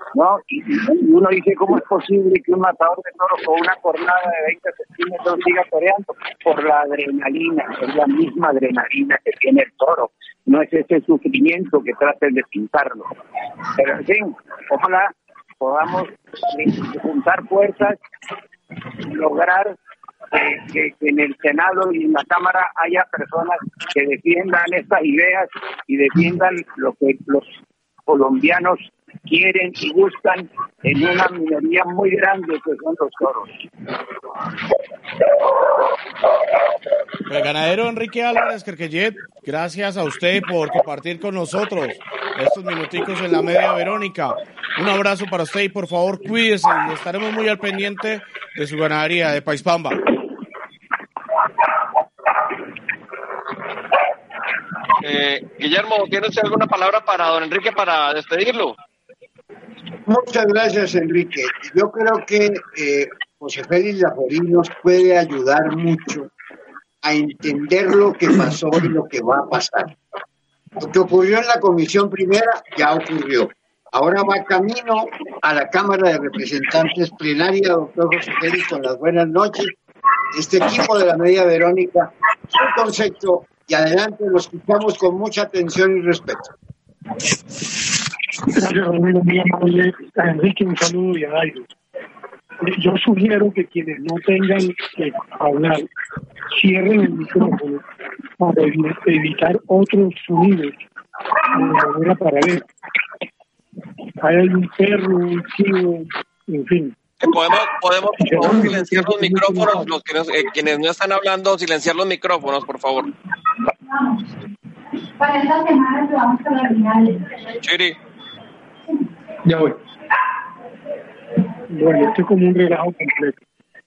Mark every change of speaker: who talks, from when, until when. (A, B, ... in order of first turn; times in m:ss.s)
0:00.1-0:13.1 A
0:13.8-0:18.0 A
0:19.1-0:19.8 A
0:20.3-0:27.6 A
0:28.1-0:33.5 A
0:37.3-0:50.0 B
0:55.0-0:58.7 C
1:00.1-1:06.3 D
1:07.0-1:09.9 D
1:10.8-1:19.7 D
1:20.3-1:26.5 D
1:28.6-1:31.7 E
1:32.6-1:35.9 E
1:36.5-1:37.8 E
1:38.4-1:40.8 E
1:41.5-1:42.6 E
1:44.2-1:47.0 E
1:47.2-1:53.1 C
1:48.2-1:49.8 E
1:53.9-1:54.2 F
1:55.2-1:57.6 F
1:57.6-1:58.0 C
2:01.7-2:03.4 E